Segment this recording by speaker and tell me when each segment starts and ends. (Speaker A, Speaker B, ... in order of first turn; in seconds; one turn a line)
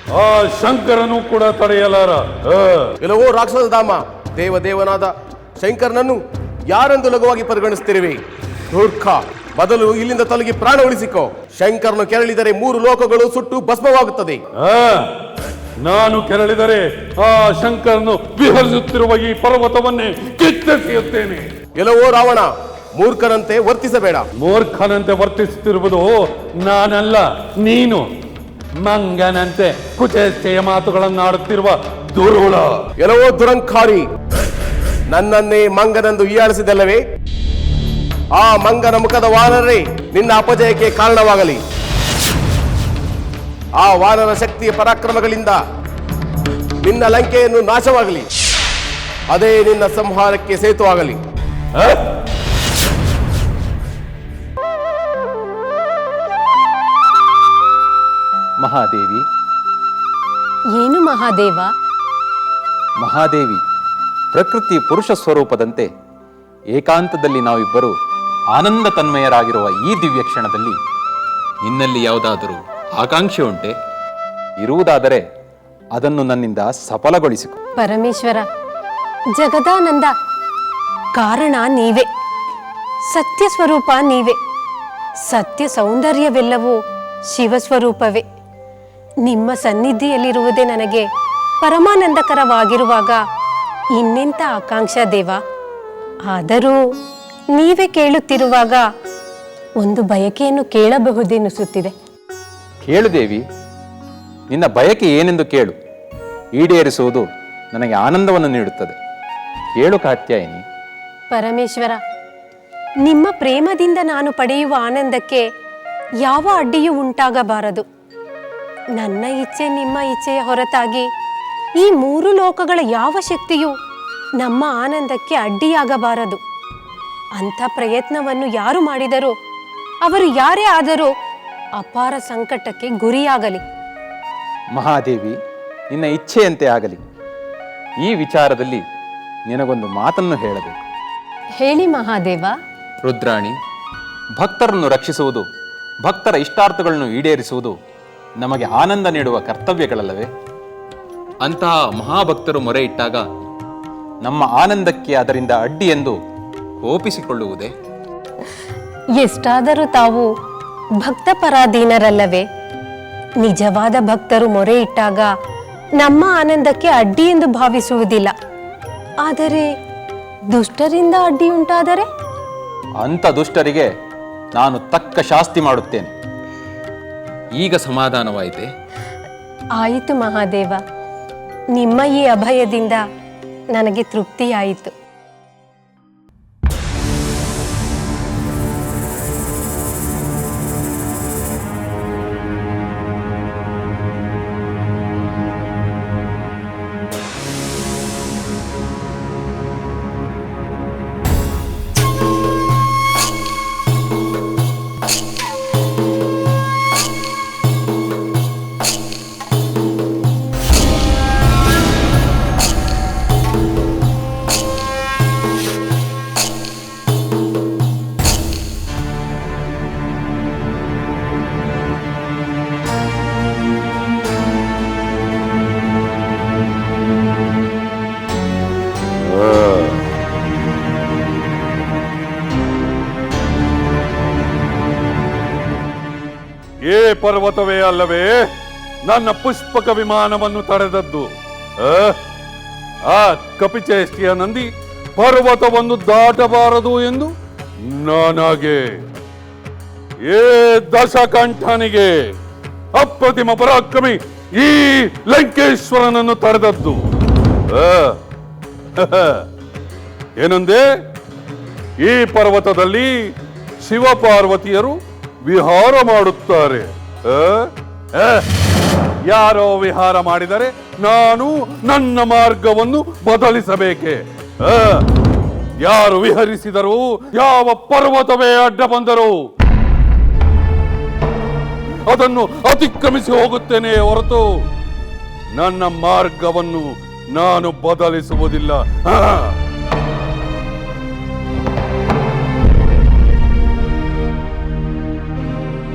Speaker A: 0.2-2.9
Speaker B: 3.0-8.2
Speaker B: 8.7-14.4
Speaker A: 14.6-15.1
Speaker A: 15.8-21.5
Speaker B: 21.8-24.3
Speaker A: 24.4-28.1
Speaker A: 28.8-32.8
Speaker B: 33.0-34.1
Speaker B: 35.1-37.0
Speaker B: 38.3-41.6
Speaker B: 43.8-45.6
Speaker B: 46.8-48.3
Speaker B: 49.3-51.2
Speaker A: 51.8-52.0
Speaker C: 58.6-59.2
Speaker D: 60.8-61.7
Speaker C: 63.0-63.6
Speaker C: 64.3-65.9
Speaker C: 66.7-67.9
Speaker C: 68.5-70.8
Speaker C: 71.6-73.8
Speaker C: 74.6-75.2
Speaker C: 75.9-77.6
Speaker D: 77.8-78.5
Speaker D: 79.3-80.1
Speaker D: 81.2-82.1
Speaker D: 83.1-84.4
Speaker D: 85.3-86.8
Speaker D: 87.3-88.2
Speaker D: 89.2-91.1
Speaker D: 91.6-93.2
Speaker D: 94.0-95.4
Speaker D: 96.3-96.8
Speaker D: 97.5-98.8
Speaker D: 99.8-101.9
Speaker C: 102.8-103.4
Speaker C: 104.5-105.8
Speaker C: 106.6-109.0
Speaker C: 109.8-110.6
Speaker D: 111.3-112.0
Speaker D: 113.0-115.5
Speaker D: 116.2-117.8
Speaker D: 119.0-121.1
Speaker D: 121.8-123.7
Speaker D: 124.4-126.4
Speaker D: 127.4-129.3
Speaker D: 130.0-131.1
Speaker D: 131.8-133.6
Speaker C: 134.7-135.4
Speaker C: 135.9-137.0
Speaker C: 138.0-138.8
Speaker C: 139.5-140.8
Speaker D: 141.6-142.5
Speaker C: 143.0-143.6
Speaker C: 144.4-145.5
Speaker C: 146.0-147.7
Speaker C: 148.4-150.3
Speaker C: 151.4-153.3
Speaker C: 154.2-156.2
Speaker C: 156.8-157.7
Speaker D: 159.2-160.3
Speaker D: 161.0-162.5
Speaker D: 163.4-165.3
Speaker D: 166.0-168.3
Speaker D: 169.2-169.7
Speaker D: 170.5-172.1
Speaker C: 173.0-173.9
Speaker C: 174.6-176.1
Speaker C: 177.6-178.7
Speaker D: 179.8-180.8
Speaker D: 181.8-183.0
Speaker D: 183.7-184.9
Speaker A: 229.2-230.0
Speaker A: 236.8-238.5
Speaker A: 239.1-242.2
Speaker A: 243.0-247.3
Speaker A: 247.8-249.0
Speaker A: 250.2-252.2
Speaker A: 252.9-257.0
Speaker A: 257.7-258.2
Speaker A: 259.0-259.5
Speaker A: 260.4-260.9
Speaker A: 262.0-263.3
Speaker A: 263.8-268.5
Speaker A: 269.2-275.0
Speaker A: 275.8-279.4
Speaker A: 282.1-284.5
Speaker A: 285.5-289.6